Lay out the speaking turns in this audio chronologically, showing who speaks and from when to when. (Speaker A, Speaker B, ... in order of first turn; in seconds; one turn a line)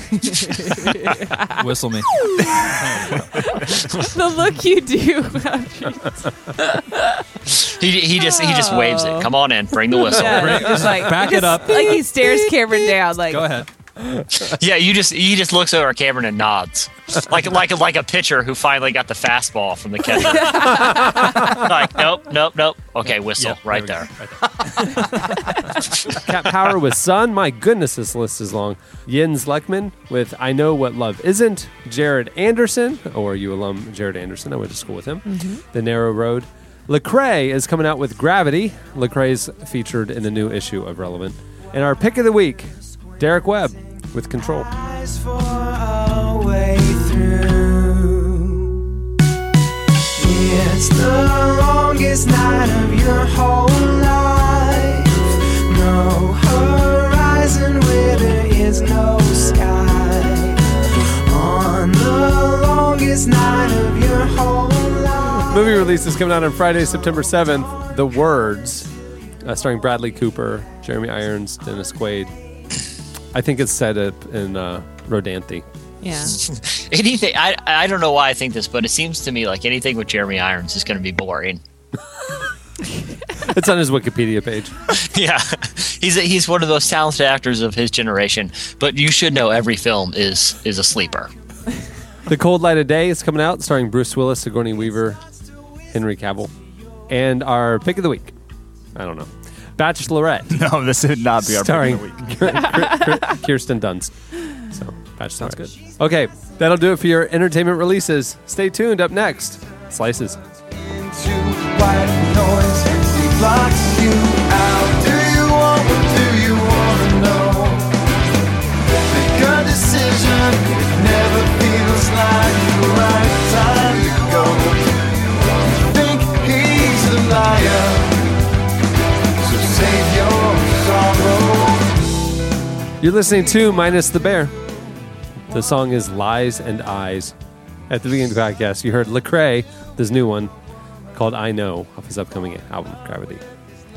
Speaker A: 0.2-1.6
Speaker B: 1.6-2.1
Speaker A: 2.3-7.2
Speaker C: 7.5-10.8
Speaker A: 8.2-9.3
Speaker A: 9.9-13.5
Speaker B: 10.3-12.1
Speaker B: 13.3-13.7
Speaker D: 14.0-14.4
Speaker C: 14.4-24.1
Speaker A: 20.2-21.5
Speaker D: 26.1-44.7
Speaker A: 35.2-35.6
Speaker E: 44.7-48.7
Speaker E: 50.2-60.6
Speaker E: 61.2-65.7
Speaker D: 65.4-68.9
Speaker D: 69.4-72.3
Speaker D: 73.3-75.6
Speaker A: 76.0-76.4
Speaker C: 76.3-81.6
Speaker D: 83.4-84.7
Speaker C: 84.9-91.3
Speaker D: 92.3-95.2
Speaker D: 95.9-96.5
Speaker D: 97.1-98.3
Speaker D: 98.9-100.6
Speaker F: 100.5-102.6
Speaker D: 101.4-110.4
Speaker B: 105.4-105.7
Speaker E: 110.7-117.9
Speaker E: 119.0-128.3
Speaker E: 129.4-132.1
Speaker D: 133.0-134.5
Speaker D: 135.5-137.3
Speaker D: 137.9-140.5
Speaker D: 141.1-143.4